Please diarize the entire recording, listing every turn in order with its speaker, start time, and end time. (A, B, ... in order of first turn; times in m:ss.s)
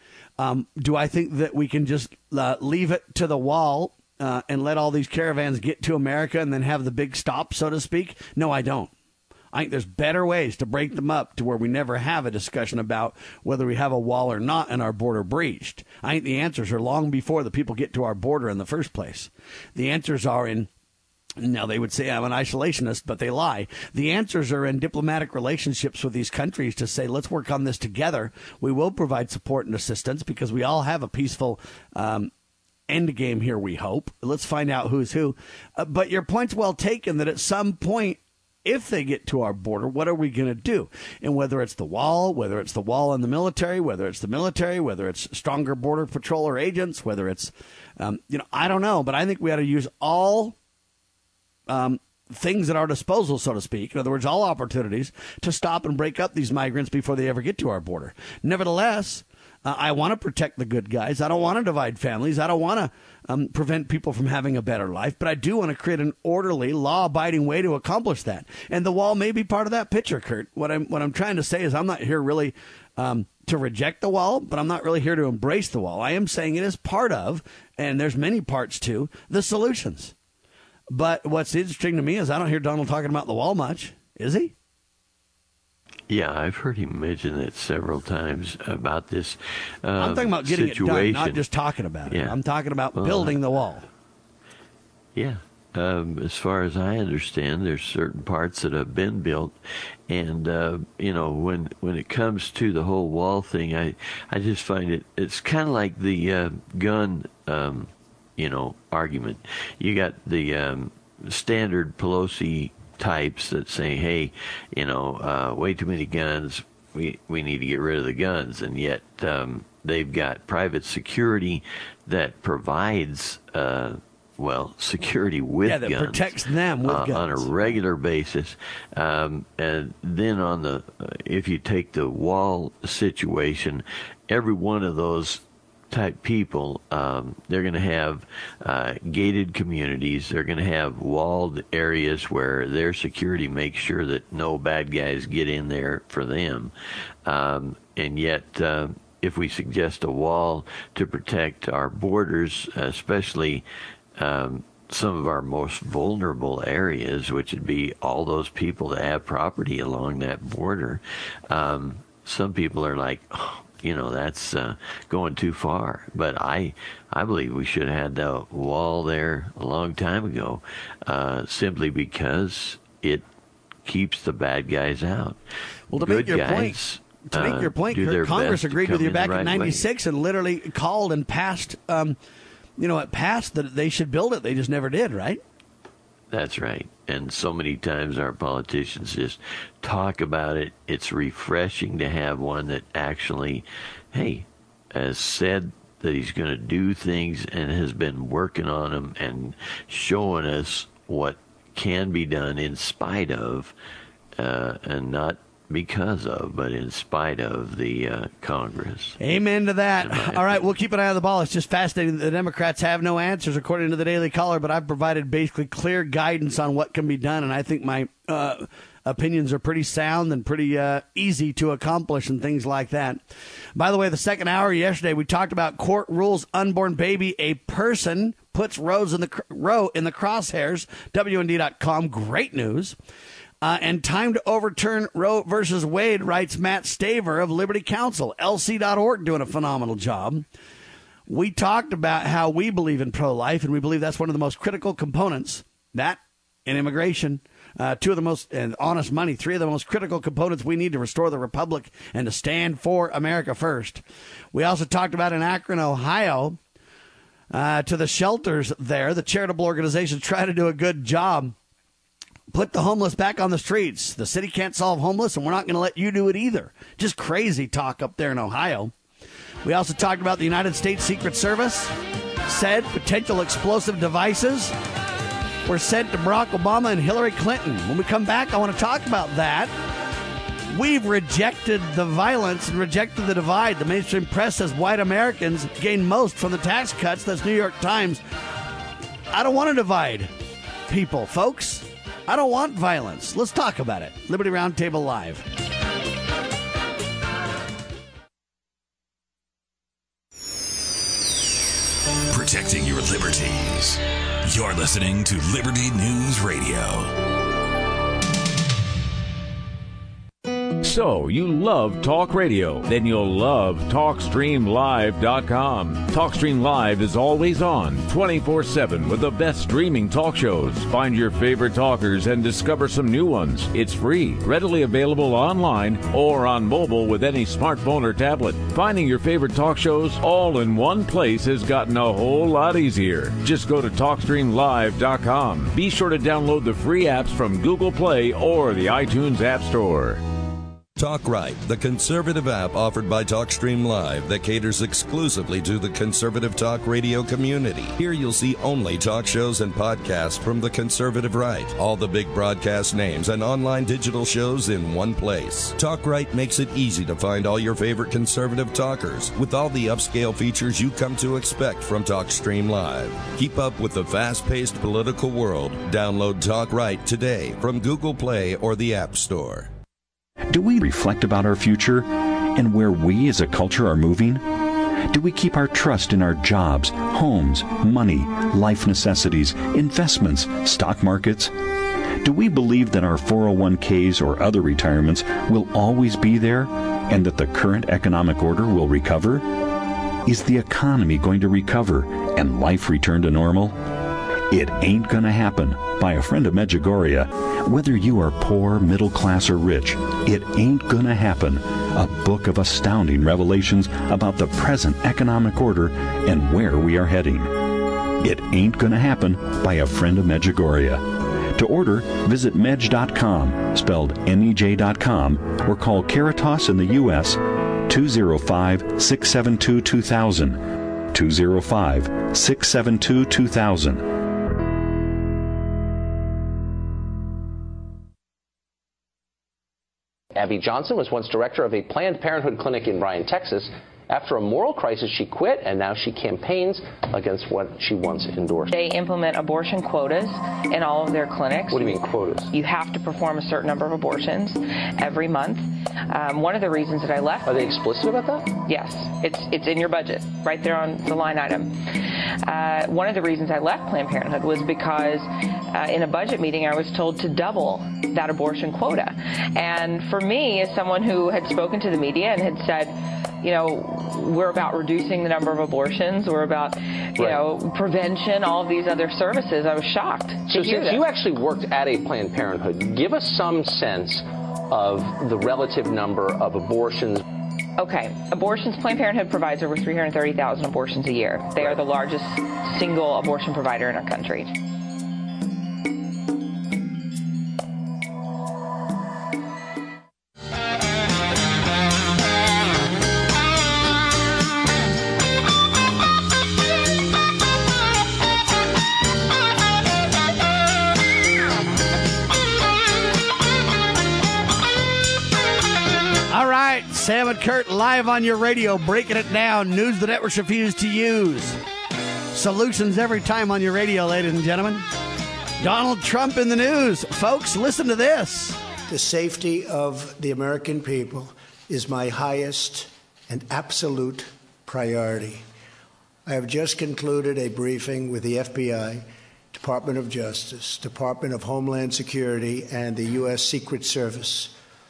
0:00.4-0:08.9 A
0:09.5-0:20.7 A
0:21.4-0:32.3 A
0:32.9-0:50.6 A
0:51.7-1:20.1 A
1:20.9-1:24.5 A
1:26.1-1:31.4 B
1:30.0-1:33.9 A
1:32.1-1:32.4 B
1:33.0-1:33.4 B
1:35.2-1:39.6 B
1:40.1-2:26.7 B
2:05.6-2:07.8 A
2:27.3-2:33.6 B
2:34.2-2:53.2 B
2:53.8-2:55.4 B
2:55.9-2:56.8 A
2:56.0-2:59.8 B
2:57.3-3:02.2 A
3:02.8-3:05.4 A
3:06.3-3:23.7 B
3:24.4-3:29.2 B
3:29.2-3:43.2 A
3:30.0-3:30.7 B
3:43.8-3:53.0 A
3:53.6-4:00.5 A
4:01.3-4:14.0 A
4:14.5-4:16.6 A
4:17.5-4:21.6 A
4:22.5-4:28.9 A
4:29.6-4:31.9 A
4:32.5-4:34.7 A
4:35.7-4:39.7 A
4:40.7-4:48.2 A
4:49.3-4:50.3 A
4:50.9-4:55.4 A
5:02.3-5:07.1 C
5:10.8-5:40.2 D
5:41.0-6:09.7 E
6:10.5-6:21.6 F
6:22.2-6:29.7 F
6:30.3-6:33.9 F
6:34.5-7:04.2 F
7:10.4-7:18.7 G
7:18.7-7:27.7 H
7:21.7-7:22.5 G
7:27.5-7:28.6 G
7:28.7-7:51.0 H
7:47.2-7:47.4 G
7:50.5-7:57.2 G
7:57.8-8:04.5 H
8:26.3-8:31.6 A
8:32.3-8:34.9 A
8:35.6-8:38.6 A
8:38.9-8:45.4 I
8:46.3-8:54.6 I